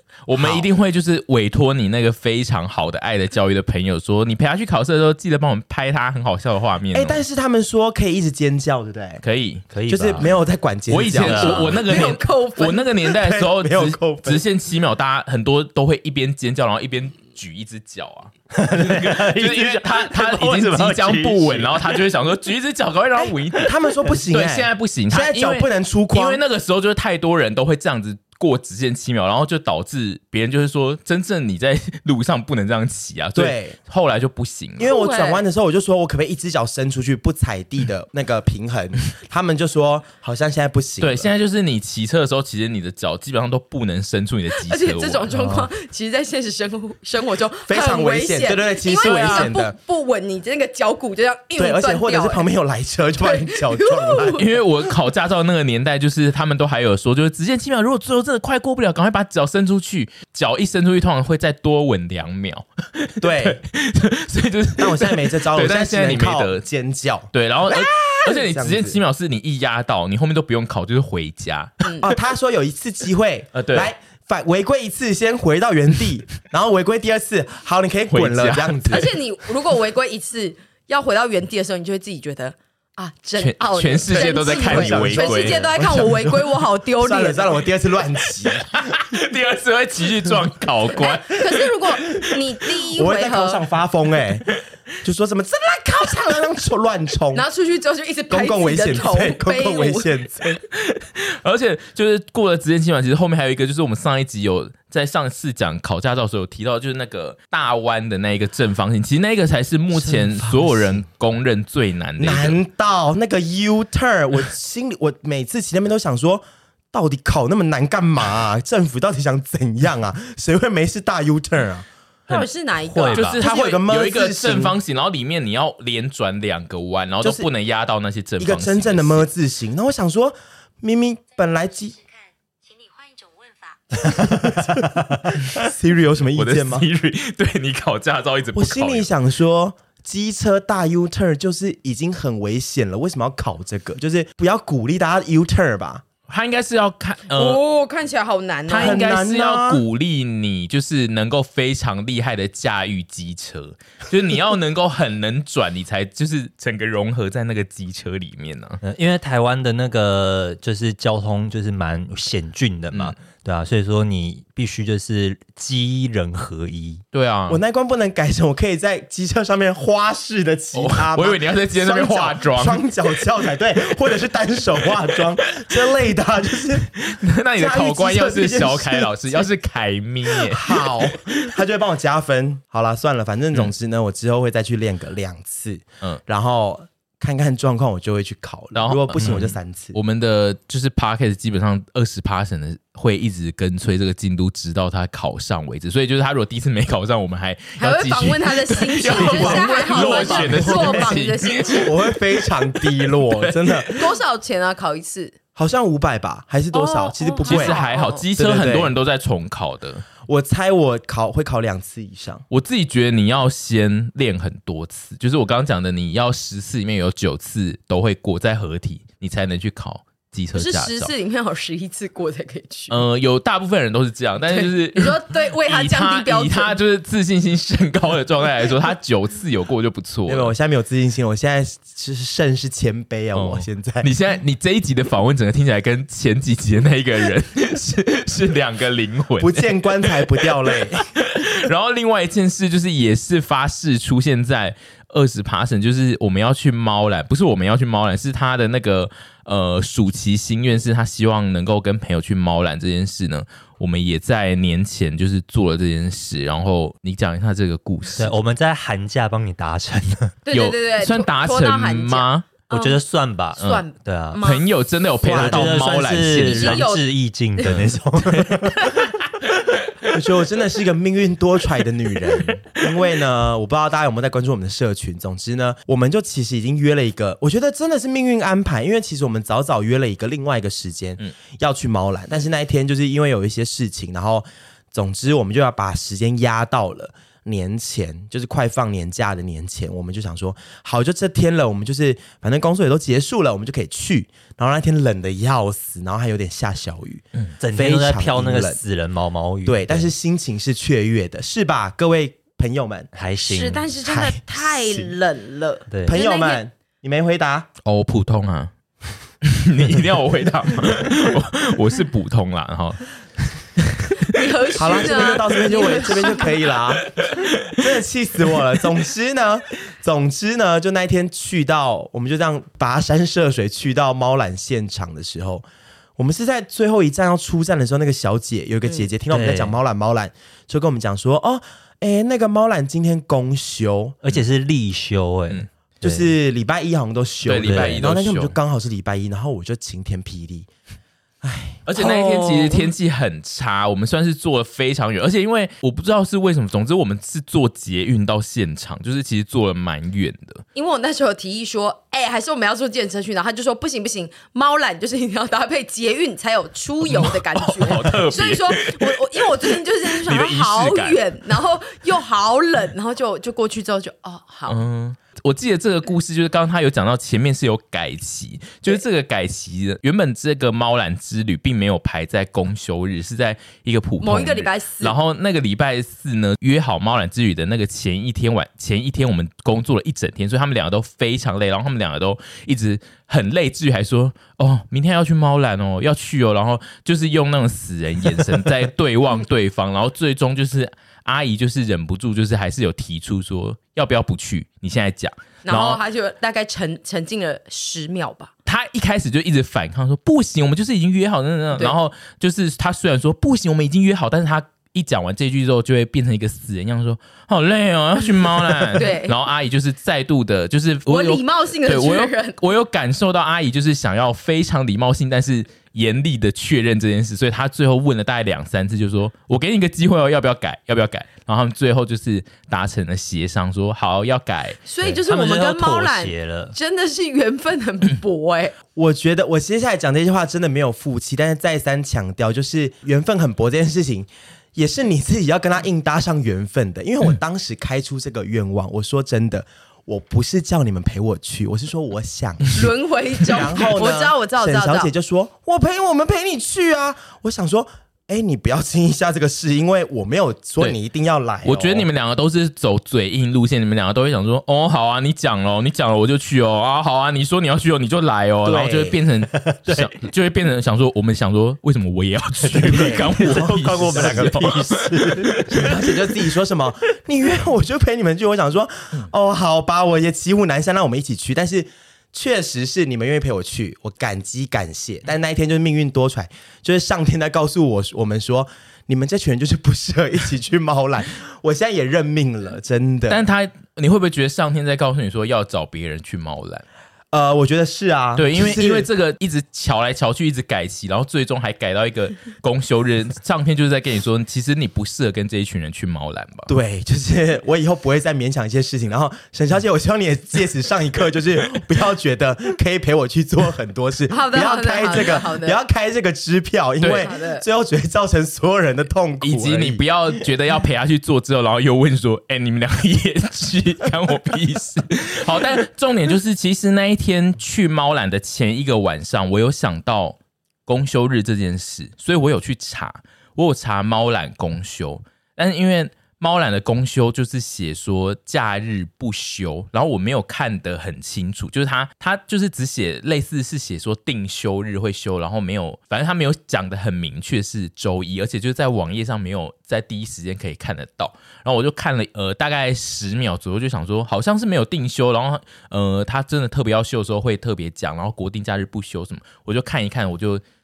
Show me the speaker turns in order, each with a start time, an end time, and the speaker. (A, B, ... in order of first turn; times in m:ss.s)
0:00.3-0:07.2 A
0:00.4-0:00.7 B
0:06.9-0:09.2 B
0:09.2-0:09.7 A
0:09.7-0:10.3 C
0:09.9-0:11.8 B
0:10.9-0:34.9 A
0:11.2-0:11.8 C
0:11.6-0:12.9 D
0:13.0-0:14.4 B
0:18.5-0:22.0 C
0:23.2-0:26.4 B
0:33.4-0:33.8 B
0:34.8-0:41.3 B
0:34.8-0:35.4 D
0:41.0-0:45.3 A
0:44.6-0:52.5 D
0:45.3-0:45.7 C
0:47.7-0:49.8 B
0:49.0-0:49.5 A
0:51.6-0:54.4 B
0:53.2-0:54.5 D
0:54.4-1:06.6 A
1:03.2-1:03.6 B
1:04.8-1:09.0 B
1:07.3-1:11.9 A
1:11.8-1:12.1 D
1:12.0-1:19.1 B
1:13.5-1:13.9 A
1:18.1-1:19.0 A
1:18.9-1:27.6 D
1:23.4-1:25.7 A
1:24.1-1:28.8 B
1:28.6-1:31.7 A
1:30.9-1:33.6 D
1:32.9-1:34.5 B
1:35.0-1:37.4 B
1:37.3-1:40.1 D
1:38.3-1:40.6 B
1:40.7-1:52.6 A
1:50.0-1:51.0 B
1:52.2-2:01.9 B
2:02.3-2:03.4 D
2:02.8-2:03.4 C
2:03.1-2:09.3 A
2:03.4-2:04.8 B
2:07.2-2:07.5 B
2:08.4-2:12.0 B
2:11.9-2:14.4 E
2:14.1-2:16.9 B
2:14.4-2:15.2 C
2:16.3-2:19.1 A
2:18.5-2:26.0 B
2:26.3-2:27.6 A
2:27.3-2:29.0 D
2:28.7-2:38.8 A
2:28.7-2:29.8 B
2:38.8-2:47.0 C
2:47.1-2:47.6 A
2:47.5-2:56.9 B
2:50.7-2:52.8 A
2:57.0-3:01.6 A
2:57.6-2:59.5 B
3:00.3-3:10.0 B
3:08.8-3:24.1 A
3:09.2-3:09.4 C
3:17.8-3:21.9 D
3:19.1-3:24.0 B
3:23.9-3:25.4 D
3:25.6-3:27.8 B
3:26.7-3:28.2 D
3:27.4-3:30.0 A
3:28.4-3:28.9 B
3:30.2-3:32.4 B
3:32.5-3:41.1 A
3:40.6-3:43.0 D
3:42.9-3:50.5 A
3:44.5-3:46.8 D
3:50.3-3:54.1 B
3:53.3-4:18.3 A
3:59.4-4:01.1 B
4:18.2-4:20.4 C
4:20.4-4:23.0 D
4:20.5-4:22.5 A
4:22.7-4:24.4 C
4:23.6-4:24.7 D
4:23.6-4:23.8 A
4:24.4-4:26.9 A
4:25.2-4:25.9 B
4:25.2-4:29.0 C
4:26.4-4:27.1 D
4:27.6-4:28.8 A
4:30.1-4:58.8 B
4:57.6-5:00.1 C
4:59.6-5:03.1 B
5:03.1-5:03.9 C
5:03.4-5:06.6 D
5:04.0-5:05.1 B
5:05.9-5:06.2 C
5:06.0-5:07.7 B
5:07.8-5:08.7 A
5:09.4-5:14.2 A
5:14.3-5:16.5 D
5:14.8-5:17.2 B
5:17.0-5:17.9 A
5:17.7-5:25.7 B
5:26.2-5:34.2 B
5:29.3-5:29.8 C
5:34.2-5:36.3 C
5:36.0-5:40.7 B
5:37.4-5:38.6 A
5:37.6-5:38.0 C
5:41.4-5:42.7 B
5:41.9-5:50.6 A
5:50.8-6:04.8 D
5:57.1-6:01.2 A
6:04.7-6:36.0 A
6:14.2-6:15.2 D
6:35.6-6:38.5 D
6:38.7-7:04.8 A
6:49.0-6:49.4 D
6:51.1-6:52.6 D
7:04.9-7:08.8 D
7:05.0-7:06.8 C
7:09.0-7:32.1 B
7:22.8-7:25.1 D
7:31.6-7:45.6 A
7:38.6-7:39.2 B
7:42.6-7:46.0 C
7:42.8-8:03.4 B
8:03.3-8:06.8 A
8:07.3-8:09.1 B
8:08.4-8:16.7 A
8:16.7-8:30.0 B
8:24.3-8:25.8 D
8:27.0-8:27.3 A
8:27.1-8:27.6 D
8:29.4-9:10.6 A